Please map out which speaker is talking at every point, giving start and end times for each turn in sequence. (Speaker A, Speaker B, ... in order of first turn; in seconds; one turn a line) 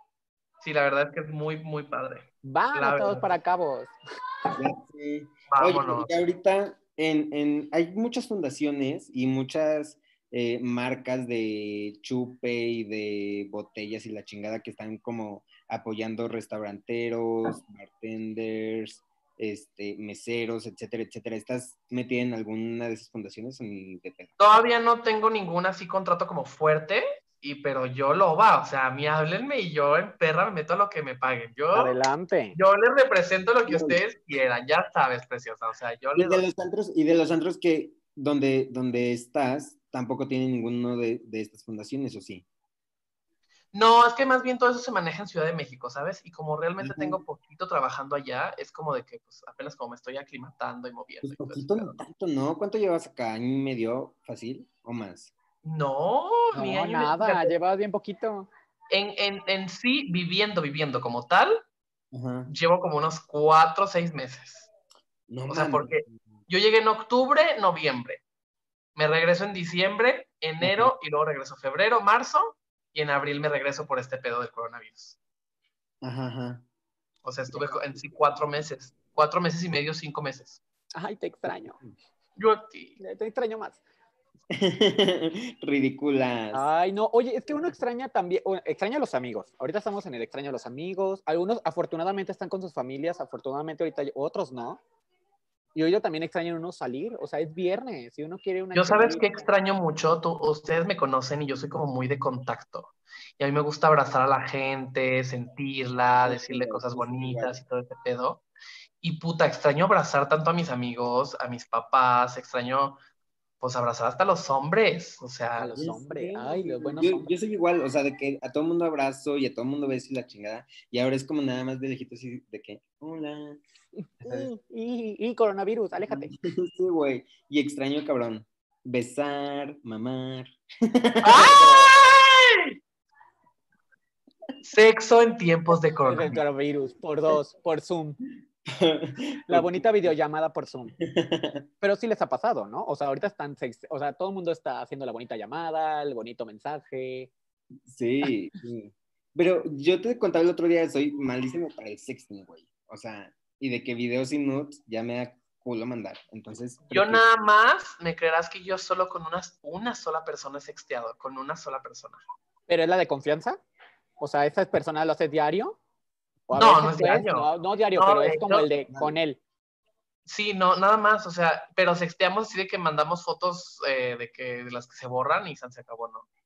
Speaker A: 0.6-3.3
Speaker B: 2.4-3.9
Speaker C: 4.6-24.3
Speaker A: 5.5-6.2
Speaker A: 24.4-32.0
Speaker B: 31.7-32.6
Speaker A: 32.5-36.4
Speaker C: 33.7-34.0
Speaker C: 36.1-42.4
Speaker A: 43.7-52.0
Speaker C: 46.8-47.2
Speaker C: 51.2-55.3
Speaker A: 55.6-57.5
Speaker B: 56.5-58.5
Speaker A: 58.9-61.6
Speaker C: 62.1-62.5
Speaker A: 62.5-64.7
Speaker C: 65.3-66.1
Speaker A: 65.5-68.2
Speaker A: 69.0-75.2
Speaker C: 70.6-70.9
Speaker C: 76.0-76.6
Speaker A: 77.2-80.6
Speaker C: 77.5-78.0
Speaker B: 81.0-81.8
Speaker A: 82.4-83.0
Speaker B: 83.0-83.8
Speaker C: 84.5-86.7
Speaker B: 86.5-94.8
Speaker B: 95.8-99.5
Speaker A: 98.7-108.4
Speaker C: 106.2-107.6
Speaker A: 109.0-113.0
Speaker A: 113.6-115.8
Speaker B: 115.6-117.3
Speaker C: 115.8-123.6
Speaker B: 124.0-126.3
Speaker C: 124.2-124.5
Speaker C: 126.1-131.6
Speaker A: 131.2-132.7
Speaker B: 131.4-131.9
Speaker A: 134.6-136.4
Speaker B: 136.1-138.2
Speaker C: 138.6-140.1
Speaker B: 139.5-140.9
Speaker C: 141.0-141.6
Speaker B: 141.8-147.3
Speaker C: 147.9-157.2
Speaker A: 156.9-162.2
Speaker B: 162.7-163.6
Speaker B: 164.2-165.8
Speaker B: 166.5-169.4
Speaker A: 166.5-168.7
Speaker C: 168.9-169.2
Speaker A: 170.3-176.3